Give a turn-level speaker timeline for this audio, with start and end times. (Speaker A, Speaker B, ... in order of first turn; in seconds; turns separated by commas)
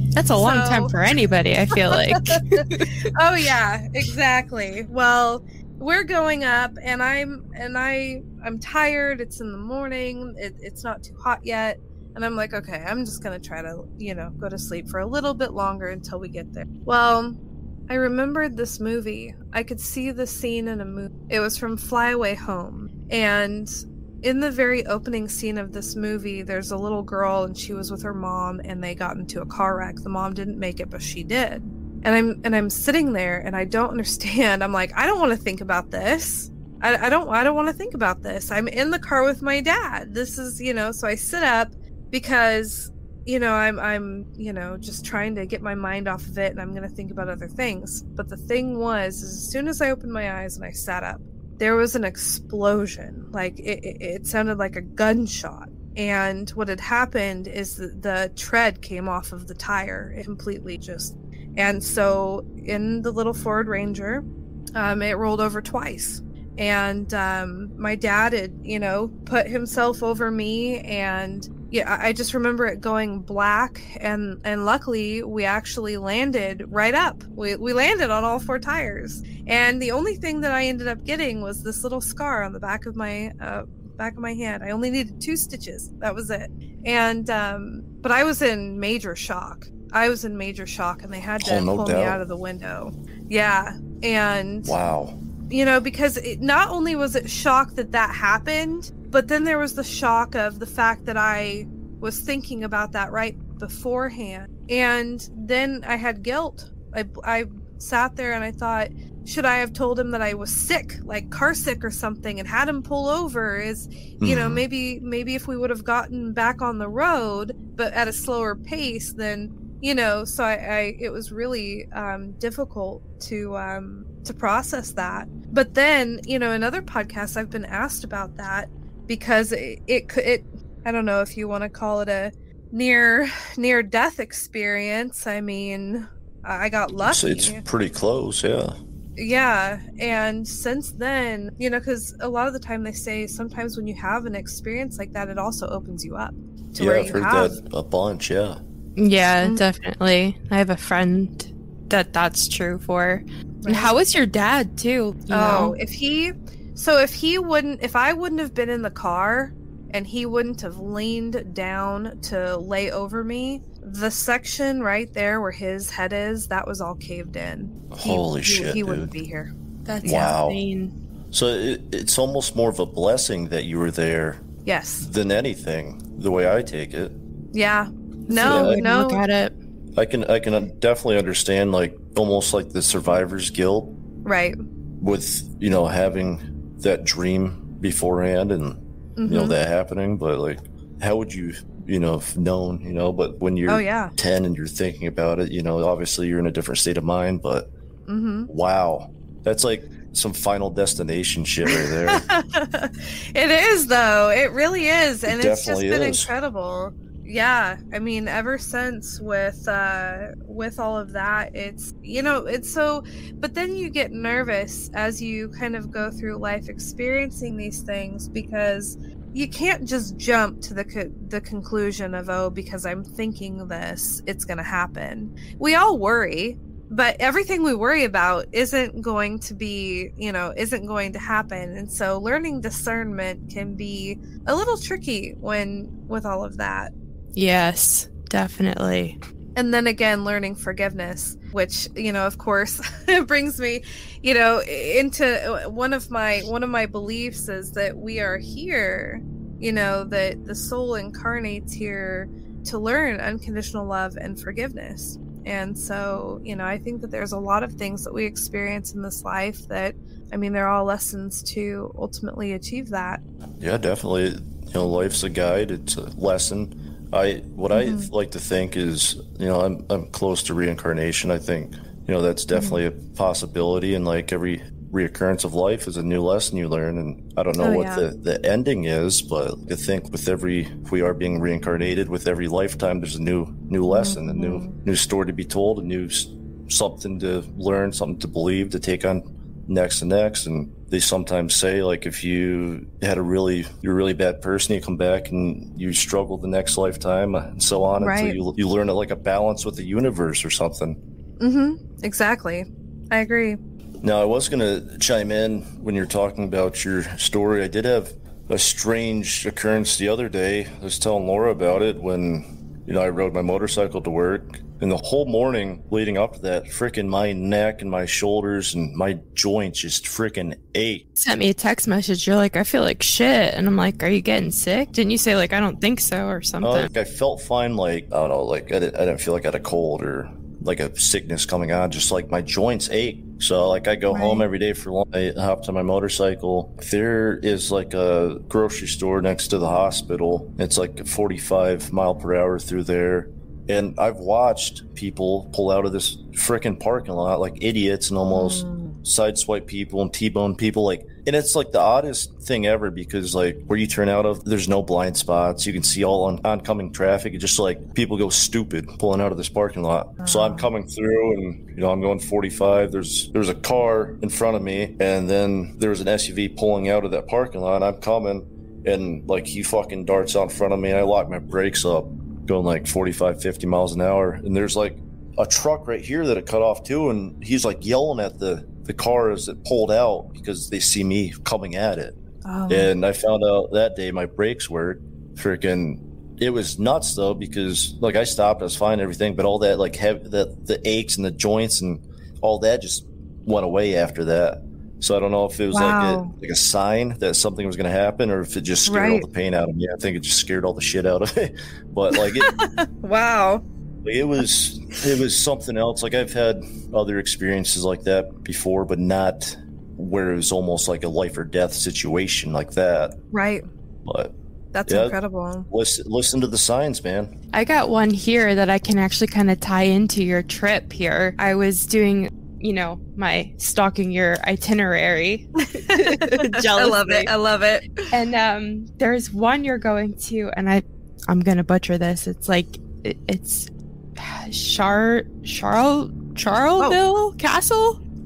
Speaker A: 0.1-2.9, Speaker B: 0.4-0.9, Speaker B: 1.9-17.4, Speaker B: 17.9-94.8, Speaker C: 91.4-92.2, Speaker C: 94.7-95.2, Speaker B: 95.5-137.6, Speaker C: 114.2-114.6, Speaker C: 137.0-138.8, Speaker B: 139.2-147.6, Speaker C: 146.8-148.6, Speaker A: 149.0-155.8, Speaker B: 153.6-153.9, Speaker B: 155.3-169.5, Speaker C: 167.9-169.1, Speaker A: 169.9-170.9, Speaker B: 170.0-170.3, Speaker C: 170.0-170.6, Speaker C: 171.3-174.4, Speaker B: 174.7-175.1, Speaker C: 175.0-177.2, Speaker B: 177.5-179.2, Speaker A: 178.3-179.6, Speaker C: 178.4-178.8, Speaker C: 180.0-184.0, Speaker B: 184.2-184.6, Speaker C: 185.0-197.7, Speaker B: 189.2-189.6, Speaker B: 193.7-194.1, Speaker B: 198.1-198.5, Speaker C: 198.5-202.2, Speaker B: 201.7-236.9, Speaker C: 205.3-206.3, Speaker A: 237.4-239.2, Speaker B: 239.6-263.2, Speaker C: 263.6-301.0, Speaker B: 267.7-268.1, Speaker B: 272.5-272.8, Speaker B: 277.6-278.1, Speaker B: 283.9-284.8, Speaker B: 298.0-298.4, Speaker B: 301.4-303.6, Speaker C: 304.0-321.1, Speaker A: 321.2-326.9, Speaker C: 326.6-382.2, Speaker B: 334.1-334.5, Speaker B: 348.3-348.9, Speaker B: 360.2-360.7, Speaker B: 382.4-382.9, Speaker C: 382.7-402.5, Speaker B: 395.7-396.3, Speaker B: 398.9-399.3, Speaker B: 402.2-403.6, Speaker C: 404.1-413.2, Speaker B: 413.3-413.6, Speaker C: 414.1-414.4, Speaker B: 414.7-415.7, Speaker C: 414.9-415.2, Speaker C: 415.7-417.3, Speaker A: 417.5-427.3, Speaker B: 425.6-428.1, Speaker A: 428.1-438.0